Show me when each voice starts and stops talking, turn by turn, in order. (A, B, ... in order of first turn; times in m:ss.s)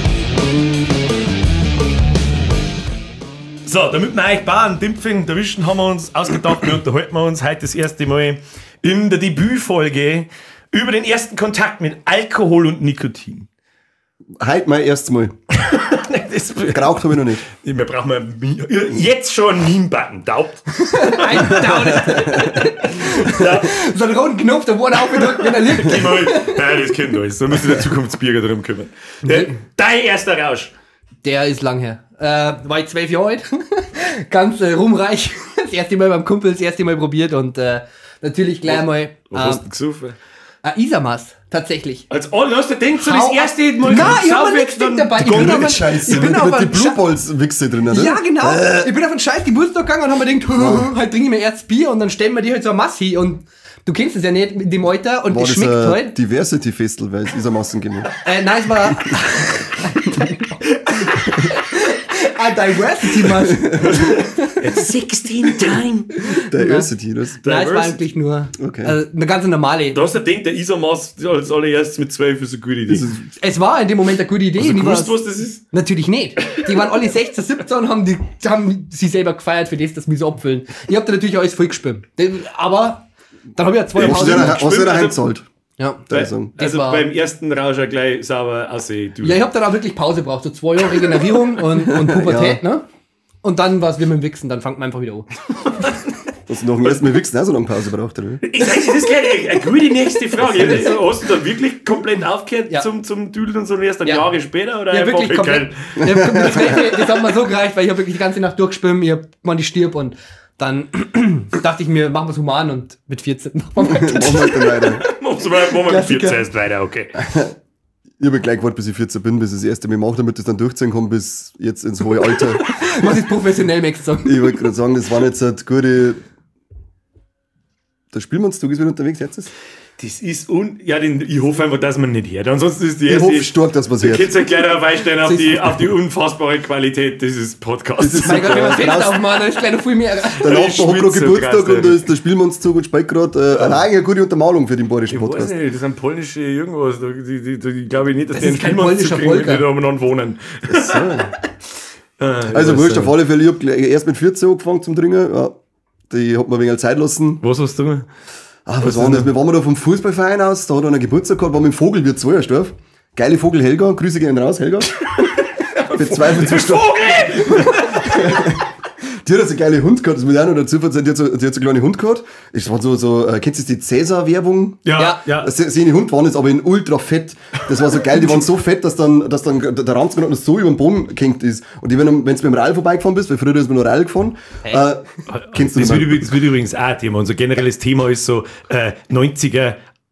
0:03.6-0:13.5 A
0:14.4-0:15.3 B
0:15.6-0:23.7 A
0:16.7-0:17.4 B
0:20.9-0:26.9 C
0:21.7-0:22.5 B
0:25.2-0:30.7 A
0:29.2-0:29.5 C
0:31.2-0:39.6 C
0:38.6-0:40.2 A
0:40.6-0:42.1 C
0:42.1-0:46.3 A
0:43.0-0:47.0 C
0:45.2-0:48.9 B
0:47.9-0:56.1 C
0:50.6-0:50.9 B
0:55.3-0:58.1 B
0:58.2-1:04.6 C
1:03.4-1:03.9 B
1:03.9-1:06.1 A
1:06.2-1:06.9 C
1:06.3-1:07.4 B
1:07.4-1:08.0 A
1:07.4-1:10.1 C
1:08.6-1:08.9 B
1:09.9-1:13.1 A
1:12.9-1:13.2 B
1:13.3-1:15.2 C
1:14.6-1:15.6 A
1:15.7-1:24.6 C
1:23.9-1:25.2 A
1:24.0-1:25.4 B
1:25.8-1:27.0 C
1:26.1-1:26.5 B
1:26.1-1:29.4 A
1:29.2-1:32.8 C
1:31.9-1:32.6 B
1:33.4-1:35.3 C
1:36.5-1:38.4 B
1:38.4-1:46.0 A
1:44.9-1:55.0 C
1:46.0-1:46.8 B
1:53.8-1:55.0 B
1:54.5-1:57.2 A
1:55.6-1:56.4 C
1:57.2-1:57.5 B
1:58.2-2:02.6 B
2:02.6-2:04.6 C
2:04.2-2:06.2 B
2:08.1-2:09.5 B
2:10.0-2:18.9 A
2:13.0-2:14.3 B
2:15.2-2:15.5 C
2:18.0-2:19.2 B
2:18.2-2:20.6 C
2:20.4-2:25.5 B
2:20.4-2:22.0 A
2:23.5-2:23.8 A
2:25.1-2:31.3 A
2:28.3-2:29.7 C
2:30.7-2:31.3 B
2:32.2-2:33.1 A
2:32.5-2:35.6 B
2:36.1-2:37.4 B
2:37.4-2:38.1 A
2:38.7-2:45.0 B
2:38.8-2:39.3 A
2:45.1-2:48.4 A
2:46.0-2:48.6 B
2:49.2-3:06.3 B
2:54.8-2:55.5 A
3:05.3-3:09.8 A